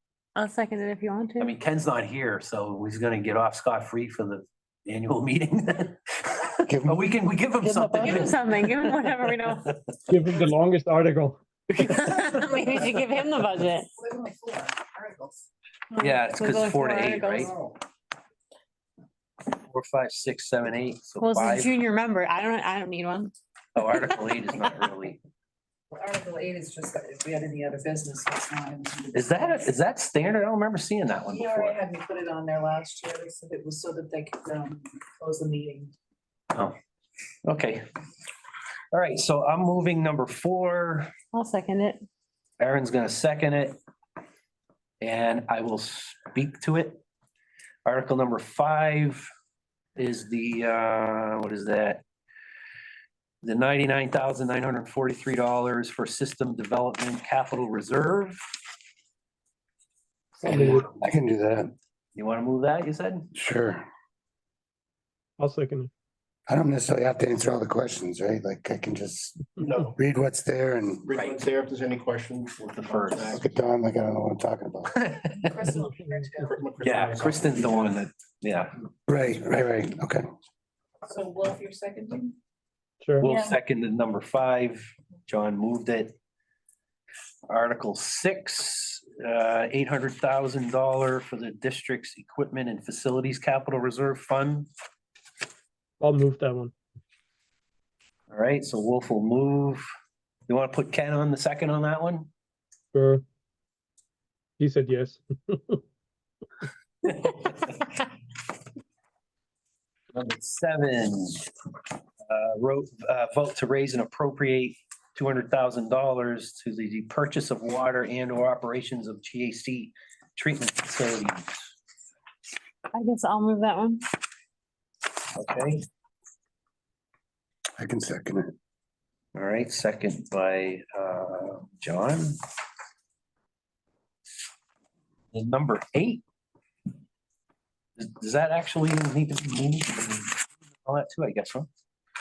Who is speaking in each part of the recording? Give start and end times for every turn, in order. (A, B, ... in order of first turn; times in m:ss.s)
0:00.4-0:01.5 A
0:01.4-0:09.7 B
0:06.7-0:07.0 C
0:07.6-0:09.7 A
0:10.1-0:11.4 D
0:11.8-0:13.9 A
0:14.0-0:15.4 E
0:15.9-0:17.5 A
0:16.0-0:17.6 B
0:19.5-0:21.7 B
0:21.2-0:23.3 A
0:23.8-0:25.2 B
0:23.8-0:24.6 A
0:25.9-0:29.7 E
0:29.1-0:31.8 B
0:31.3-0:35.9 E
0:37.4-0:37.8 B
0:38.9-0:41.1 B
0:41.3-0:42.0 A
0:42.6-0:43.8 B
0:45.0-0:47.0 B
0:47.9-0:49.3 B
0:50.0-0:52.0 B
0:53.4-0:58.4 B
1:00.4-1:00.8 D
1:00.4-1:01.7 C
1:02.2-1:03.3 B
1:03.3-1:03.8 C
1:05.4-1:05.9 D
1:06.5-1:11.1 C
1:09.6-1:10.0 F
1:11.0-1:13.4 F
1:11.1-1:11.4 B
1:12.7-1:13.4 B
1:13.3-1:15.0 C
1:15.0-1:15.6 B
1:15.4-1:16.6 E
1:16.5-1:18.0 F
1:16.8-1:18.7 B
1:19.1-1:20.3 C
1:21.1-1:22.4 E
1:23.0-1:23.3 D
1:23.2-1:26.1 B
1:23.3-1:23.5 E
1:27.5-1:34.7 B
1:36.0-1:36.7 D
1:38.3-1:39.8 B
1:40.5-1:42.3 B
1:42.9-1:43.2 D
1:44.6-1:45.8 D
1:47.0-1:47.7 B
1:50.1-1:51.5 B
1:52.3-2:01.7 B
2:02.9-2:04.0 A
2:05.4-2:05.8 B
2:07.8-2:08.5 C
2:09.4-2:12.4 B
2:15.3-2:16.2 B
2:18.0-2:21.7 B